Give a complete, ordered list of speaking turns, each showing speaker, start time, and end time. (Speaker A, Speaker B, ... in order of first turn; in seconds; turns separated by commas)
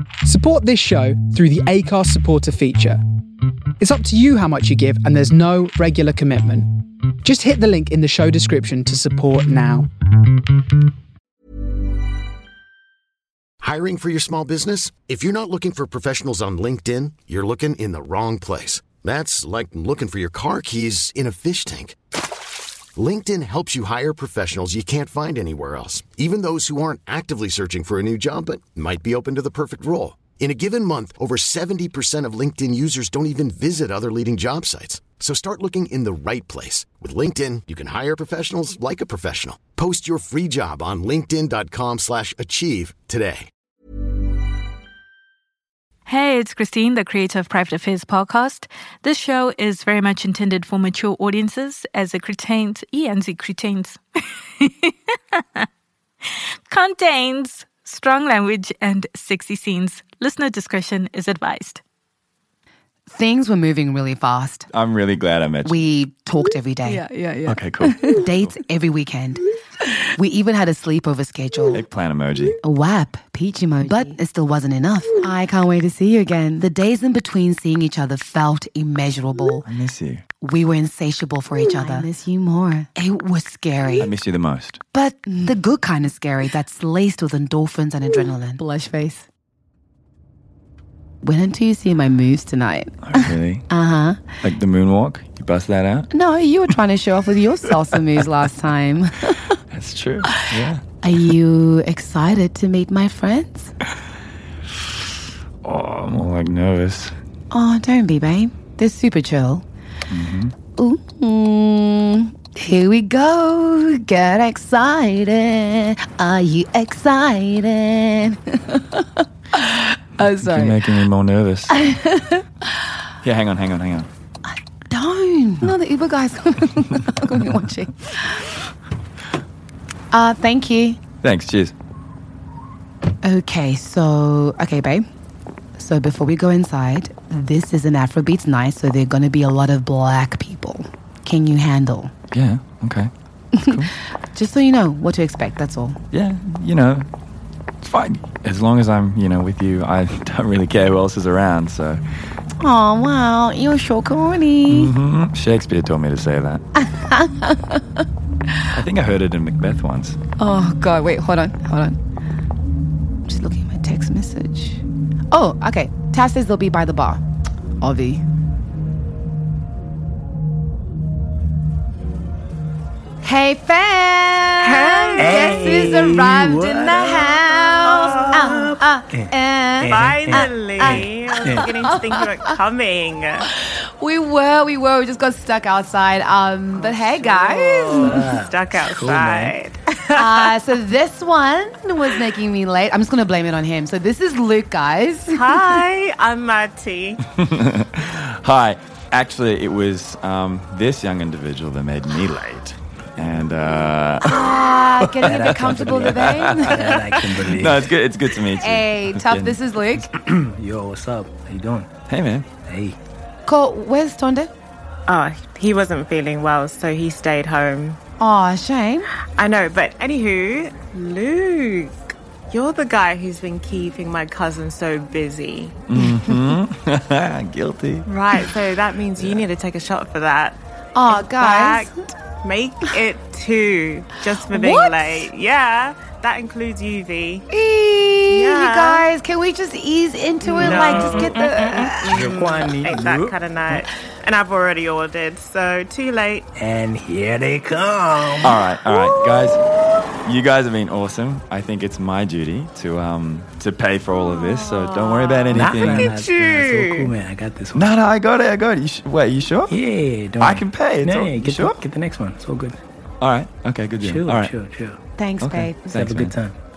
Speaker A: 0.2-3.0, Speaker A: 3.8-6.7, Speaker A: 7.2-9.9, Speaker B: 13.6-22.0, Speaker B: 22.9-43.5, Speaker C: 46.1-54.0, Speaker C: 54.6-55.6, Speaker C: 56.7-61.8, Speaker D: 63.1-64.7, Speaker E: 64.7-65.8, Speaker D: 65.6-67.1, Speaker C: 66.8-67.6, Speaker E: 67.5-68.5, Speaker D: 68.0-69.4, Speaker D: 70.1-71.8, Speaker E: 71.7-72.6, Speaker D: 72.6-79.7, Speaker E: 79.7-80.2, Speaker D: 80.4-84.1, Speaker E: 84.0-84.8, Speaker D: 84.9-89.3, Speaker D: 91.2-94.4, Speaker E: 93.0-93.7, Speaker E: 94.4-96.1, Speaker D: 96.1-99.6, Speaker E: 99.7-100.8, Speaker D: 100.2-103.7, Speaker E: 105.6-107.1, Speaker D: 107.5-109.6, Speaker E: 110.1-110.5, Speaker D: 110.8-120.9, Speaker E: 120.2-121.8, Speaker D: 121.7-122.7, Speaker E: 123.2-124.1, Speaker D: 124.5-128.5, Speaker D: 130.1-131.0, Speaker E: 131.2-131.7, Speaker D: 133.2-135.1, Speaker D: 135.8-142.1, Speaker E: 142.3-143.9, Speaker D: 143.6-146.0, Speaker E: 146.1-147.1, Speaker E: 147.8-152.0, Speaker D: 152.6-154.9, Speaker E: 154.7-156.6, Speaker D: 156.8-158.1, Speaker E: 158.7-160.2, Speaker D: 160.4-162.0, Speaker D: 163.2-167.2, Speaker D: 167.8-168.2, Speaker D: 173.2-182.5, Speaker F: 174.6-175.9, Speaker G: 175.2-177.4, Speaker F: 177.8-178.6, Speaker G: 177.9-181.7, Speaker F: 179.9-183.5, Speaker D: 183.4-188.3, Speaker G: 187.3-189.5, Speaker F: 187.3-190.5, Speaker D: 190.1-195.8, Speaker F: 195.3-197.2, Speaker E: 197.2-210.0, Speaker D: 204.2-207.0, Speaker G: 205.2-207.9, Speaker D: 208.6-210.1, Speaker G: 210.1-211.9, Speaker E: 212.1-212.5, Speaker G: 212.6-212.9, Speaker D: 213.5-214.5, Speaker F: 215.1-218.0, Speaker D: 218.2-219.1, Speaker F: 219.4-225.8, Speaker E: 225.9-228.1, Speaker D: 226.0-226.3, Speaker F: 228.1-237.5, Speaker D: 230.9-232.1, Speaker D: 234.5-235.3, Speaker D: 237.5-242.1, Speaker F: 238.3-239.1, Speaker G: 240.4-243.9, Speaker F: 240.6-246.4, Speaker G: 246.6-248.7, Speaker E: 248.4-249.6, Speaker E: 250.2-256.1, Speaker F: 254.1-257.1, Speaker G: 255.5-257.9, Speaker E: 257.7-259.8, Speaker G: 259.7-262.8, Speaker E: 260.4-261.8, Speaker E: 263.2-264.5, Speaker G: 264.0-265.0, Speaker D: 265.2-265.9, Speaker E: 265.4-266.3, Speaker G: 265.9-266.5